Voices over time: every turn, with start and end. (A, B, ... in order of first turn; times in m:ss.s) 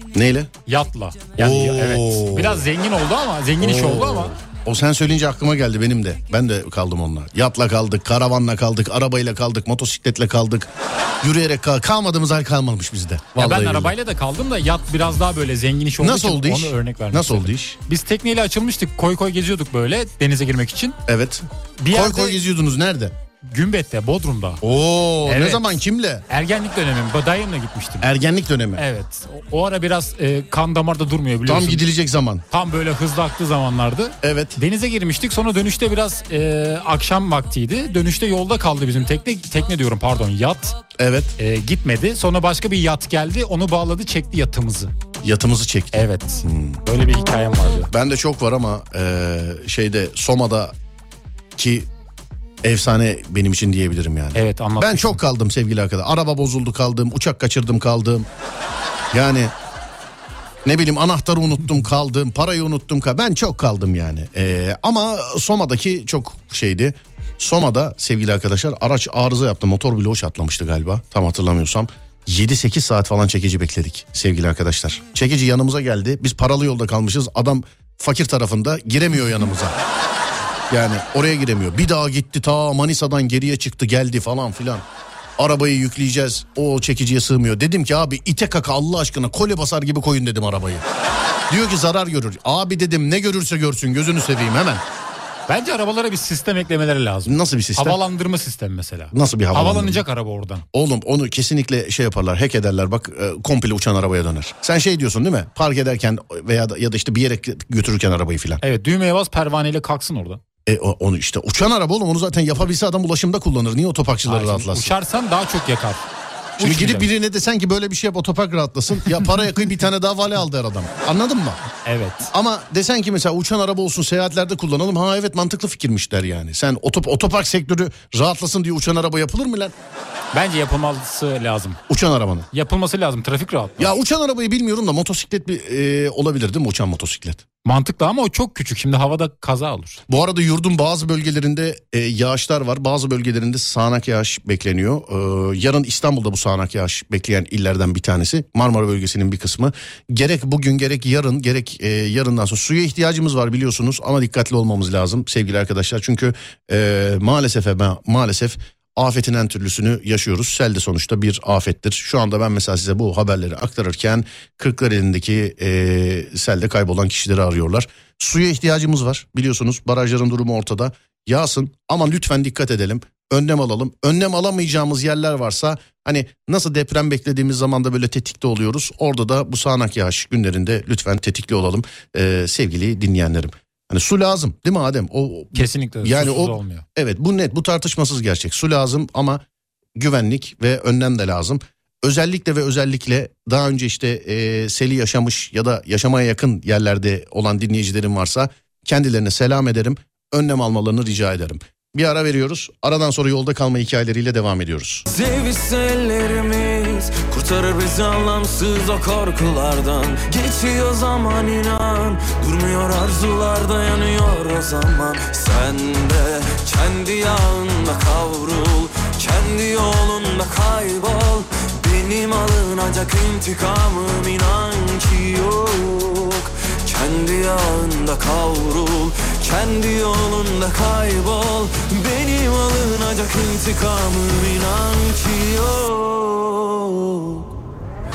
0:00.1-0:00.5 A
0:00.6-0:04.4 B
0:01.4-0:02.6 A
0:03.6-0:13.9 A
0:13.4-0:21.0 B
0:16.0-0:17.8 A
0:21.1-0:23.2 A
0:21.8-0:22.4 B
0:23.5-0:24.6 B
0:24.6-0:26.2 A
0:25.2-0:25.6 B
0:26.3-0:28.0 B
0:28.0-0:28.8 A
0:28.8-0:31.9 B
0:31.5-0:32.4 A
0:32.5-0:40.8 B
0:34.2-0:34.6 A
0:41.0-0:41.3 A
0:41.4-0:44.9 B
0:45.2-0:46.8 A
0:45.9-0:47.9 B
0:47.9-0:50.7 A
0:51.6-0:51.9 A
0:52.6-0:58.3 A
0:54.4-0:55.2 B
0:59.1-0:59.5 A
1:00.6-1:19.8 A
1:20.7-1:24.8 A
1:25.4-1:30.8 A
1:31.5-1:34.8 A
1:35.5-1:40.6 B
1:37.2-1:38.0 A
1:39.1-1:40.0 A
1:40.7-1:48.6 A
1:48.6-1:50.4 B
1:50.6-1:54.9 A
1:54.2-1:56.1 B
1:56.6-1:57.1 B
1:56.6-2:01.6 A
2:01.8-2:02.3 B
2:02.3-2:09.7 A
2:10.3-2:11.8 B
2:11.9-2:12.5 A
2:12.5-2:14.0 B
2:13.8-2:17.4 A
2:17.6-2:20.0 B
2:20.1-3:09.4 A
3:05.5-3:06.8 B
3:10.0-3:25.1 A
3:25.1-3:57.5 C